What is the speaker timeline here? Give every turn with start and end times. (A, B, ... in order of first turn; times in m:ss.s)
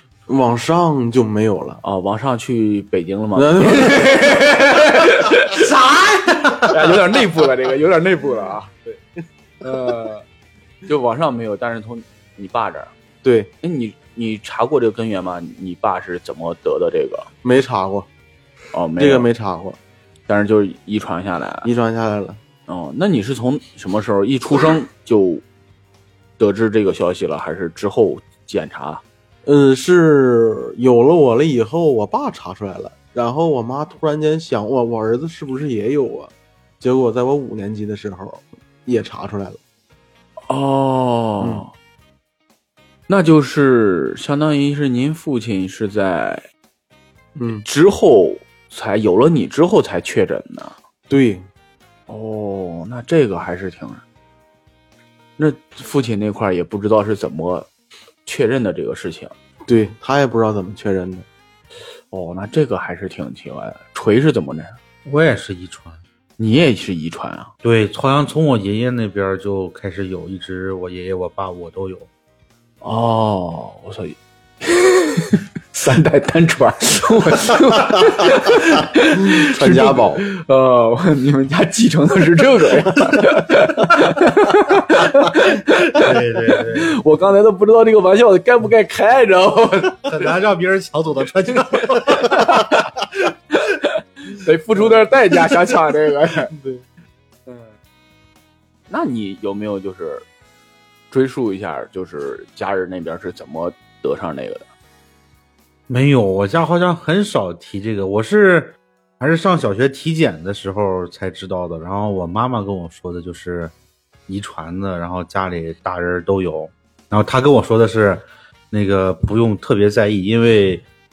0:00.3-0:01.8 A
0:01.8-0:05.7 B
0:03.4-0:04.4 A
0:05.6-0:06.6 C
0:06.6-0:08.7 B
0:09.6-0:10.2 B
0:10.9-0:12.9 B
0:13.2-0:13.5 A
0:13.6-0:17.3 B
0:17.4-0:18.1 A
0:18.7-0:19.3 B
0:19.0-0:19.8 A
0:20.3-0:21.7 B
0:21.6-0:22.4 A
0:22.7-0:25.4 B
0:26.4-0:29.0 B
0:29.4-0:39.6 A
0:40.5-0:41.7 B
0:43.1-0:46.4 B
0:47.4-0:47.6 A
0:47.6-0:50.7 B
0:51.1-0:51.4 A
0:52.1-0:54.0 B
0:55.4-0:57.7 B
0:58.2-0:59.3 B
0:59.7-1:01.2 A
1:02.1-1:04.8 B
1:05.0-1:06.0 C
1:06.4-1:07.5 B
1:07.6-1:12.1 C
1:12.8-1:30.3 B
1:19.2-1:20.2 A
1:25.9-1:26.9 C
1:30.1-1:32.5 C
1:31.5-1:32.9 B
1:33.5-1:36.5 B
1:36.5-1:36.8 A
1:37.5-1:37.7 B
1:38.9-1:40.2 B
1:41.1-1:44.7 B
1:45.9-1:53.7 C
1:54.3-2:00.8 C